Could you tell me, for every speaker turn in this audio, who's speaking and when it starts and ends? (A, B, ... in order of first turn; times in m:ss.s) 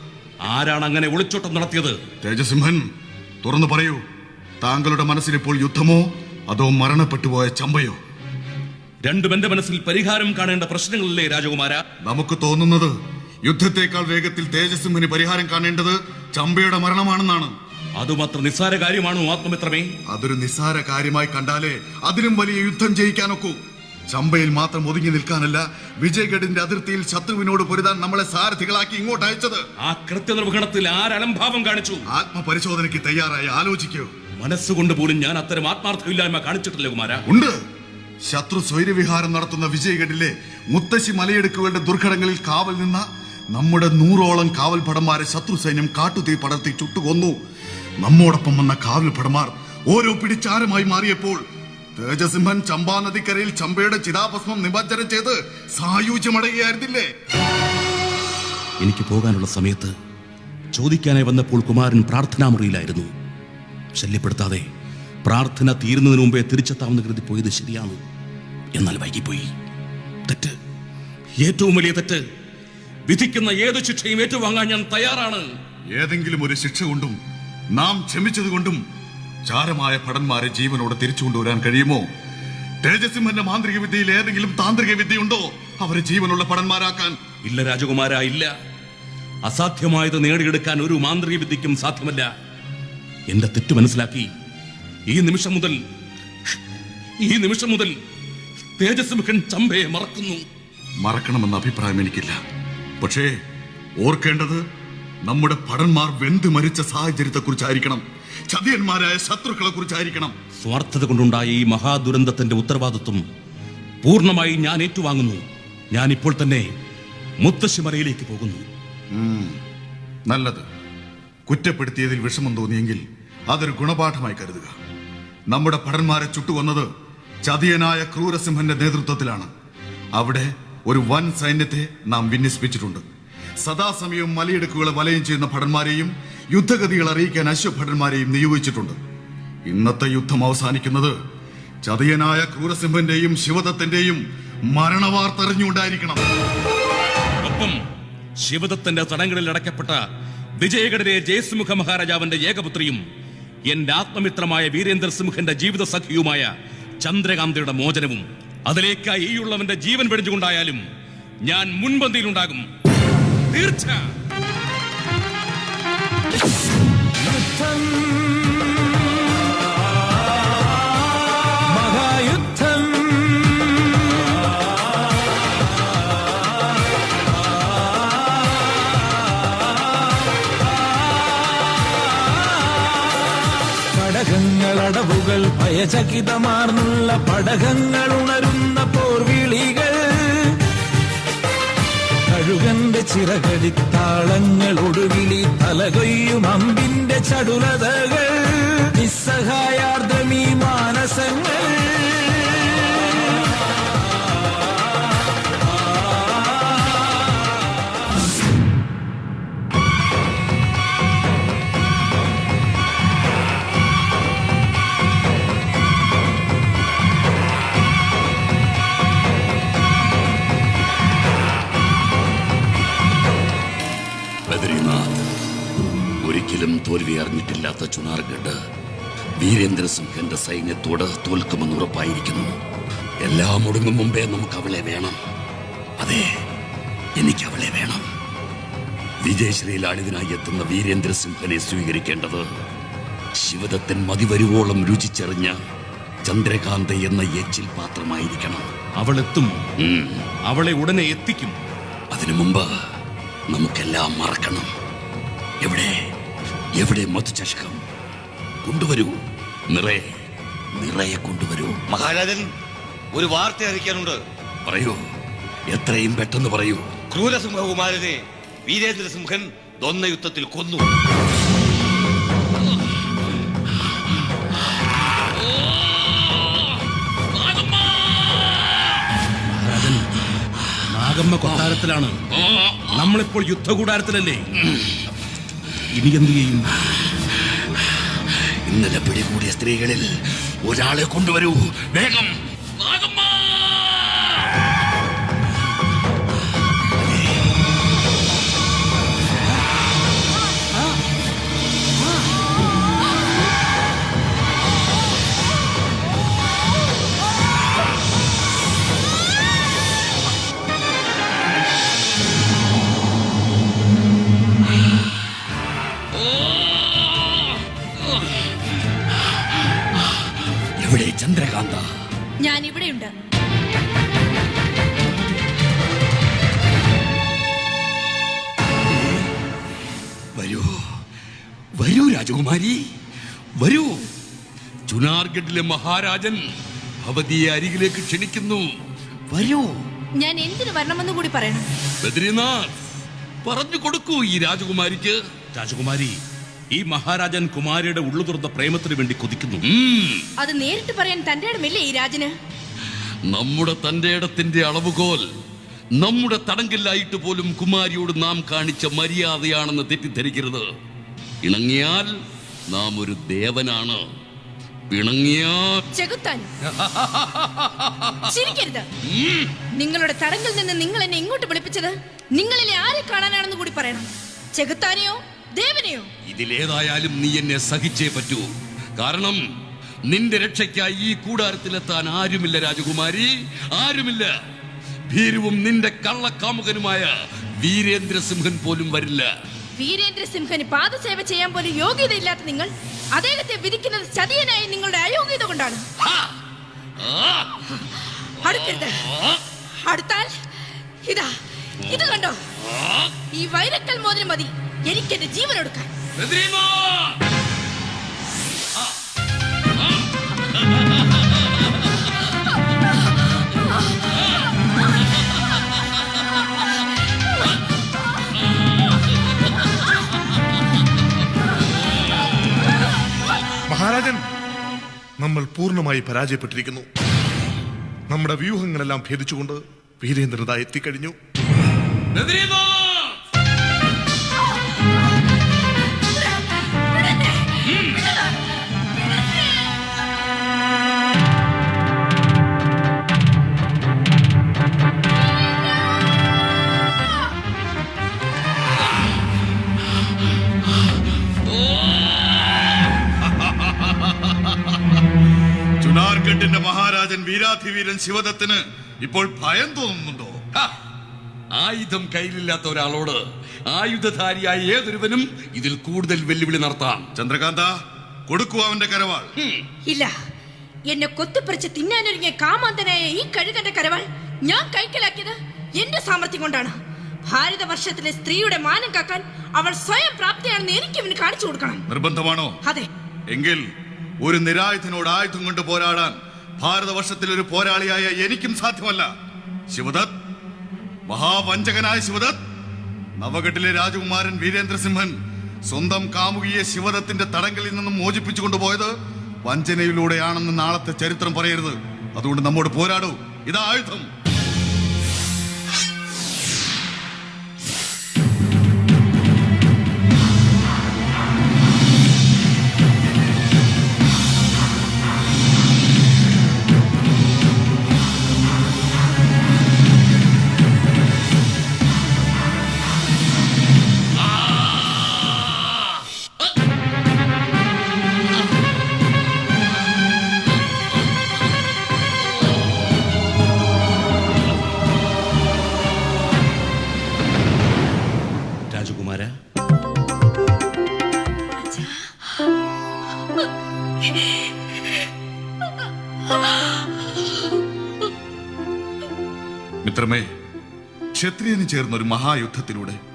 0:00.4-0:02.0 A
0:02.2-0:02.8 B
0:03.4-0:04.0 B
0:04.6-0:08.0 B
0:09.0-0:11.8 A
0:12.1-0:12.9 B
0:13.4-0:17.5 B
0:18.0-0:19.9 A
0:20.1-0:29.6 B
0:29.8-0:32.0 A
0:32.1-0:34.1 B
0:34.4-0:37.2 A
0:37.3-0:37.6 B
0:38.3-0:47.4 B
0:48.0-0:51.4 B
0:52.0-0:57.1 B
0:58.8-0:59.9 A
1:00.7-1:03.1 A
1:04.0-1:04.6 A
1:05.3-1:08.0 A
1:08.8-1:09.5 A
1:10.3-1:10.6 A
1:11.4-1:12.2 A
1:13.1-1:15.5 A
1:15.9-1:17.2 B
1:17.7-1:18.8 B
1:19.5-1:22.0 B
1:22.8-1:27.2 B
1:27.4-1:28.5 A
1:29.5-1:32.3 A
1:33.3-1:34.3 A
1:35.1-1:35.8 A
1:37.2-1:37.9 A
1:38.8-1:40.4 A
1:41.0-1:42.4 B
1:43.0-1:43.3 B
1:44.0-1:44.6 B
1:45.3-1:50.4 B
1:50.6-1:53.2 A
1:54.0-1:56.7 A
1:57.4-1:58.6 A
1:59.1-1:59.6 B
2:00.3-2:00.7 B
2:01.5-2:04.8 B
2:05.5-2:06.9 B
2:07.4-2:09.5 B
2:10.2-2:13.0 B
2:13.6-2:19.0 B
2:19.7-2:21.1 B
2:21.8-2:26.2 B
2:27.4-2:27.8 A
2:28.4-2:30.0 A
2:30.6-2:33.0 A
2:33.7-2:36.5 A
2:37.0-2:40.8 A
2:41.4-2:42.7 A
2:43.5-2:44.1 A
2:47.2-2:48.8 C
2:51.6-2:53.7 C
3:03.9-3:10.6 C
3:12.3-3:22.8 C
3:44.5-3:45.2 D
3:46.2-3:48.6 D
3:49.4-3:52.6 D
3:53.2-3:55.2 D
3:56.0-3:56.3 D
3:57.2-3:58.0 D
3:59.2-4:02.4 D
4:03.4-4:05.6 D
4:06.2-4:08.7 D
4:09.0-4:09.5 A
4:09.8-4:10.2 D
4:10.5-4:11.6 A
4:12.1-4:12.7 D
4:13.5-4:14.7 D
4:15.6-4:15.9 D
4:16.8-4:17.8 D
4:18.6-4:19.2 D
4:19.7-4:20.0 D
4:20.8-4:21.8 D
4:21.9-4:22.5 E
4:23.1-4:24.2 E
4:24.7-4:25.0 D
4:25.7-4:26.9 D
4:27.1-4:30.8 E
4:37.4-4:38.1 D
4:39.5-4:40.1 A
4:40.9-4:42.2 A
4:42.4-4:42.9 D
4:42.9-4:44.4 A
4:45.9-4:46.6 A
4:48.7-4:54.3 D
5:20.8-5:21.9 D
5:22.4-5:23.1 F
5:30.4-5:30.7 D
5:31.8-5:32.8 D
5:33.6-5:33.9 D
5:34.9-5:36.4 D
5:37.0-5:38.7 D
5:39.3-5:39.8 D
5:40.2-5:41.7 F
5:42.0-5:42.7 D
5:43.4-5:45.2 D
5:45.5-5:46.2 A
5:46.7-5:49.6 A
5:49.7-5:50.2 D
5:50.4-5:52.3 F
5:53.3-5:55.2 D
5:56.0-6:00.7 D
6:01.4-6:02.1 D
6:02.7-6:04.0 D
6:04.9-6:05.8 D
6:05.9-6:06.5 F
6:06.7-6:08.2 D
6:08.3-6:08.9 F
6:09.1-6:09.5 D
6:09.8-6:16.1 F
6:16.3-6:19.4 D
6:20.1-6:24.3 D
6:25.1-6:29.3 D
6:29.8-6:35.8 F
6:37.1-6:37.5 D
6:38.4-6:39.1 F
6:39.8-6:40.3 F
6:41.1-6:41.3 F
6:41.8-6:42.4 F
6:43.3-6:45.9 F
6:46.2-6:47.2 D
7:03.7-7:04.2 G
7:05.2-7:06.8 G
7:08.1-7:11.1 G
7:12.1-7:13.2 D
7:35.8-7:40.4 B
7:41.5-7:47.1 D
7:47.2-7:47.7 B
7:48.3-7:49.3 B
7:49.9-7:50.1 F
7:50.9-7:56.8 F
7:57.3-8:01.8 F
8:01.9-8:02.6 B
8:03.3-8:03.6 B
8:04.2-8:09.1 B
8:09.7-8:10.1 B
8:11.1-8:12.4 B
8:13.2-8:15.1 B
8:15.7-8:18.9 B
8:19.4-8:24.1 B
8:58.7-8:59.4 A
9:01.7-9:02.0 F
9:09.8-9:10.3 B
9:11.1-9:13.0 B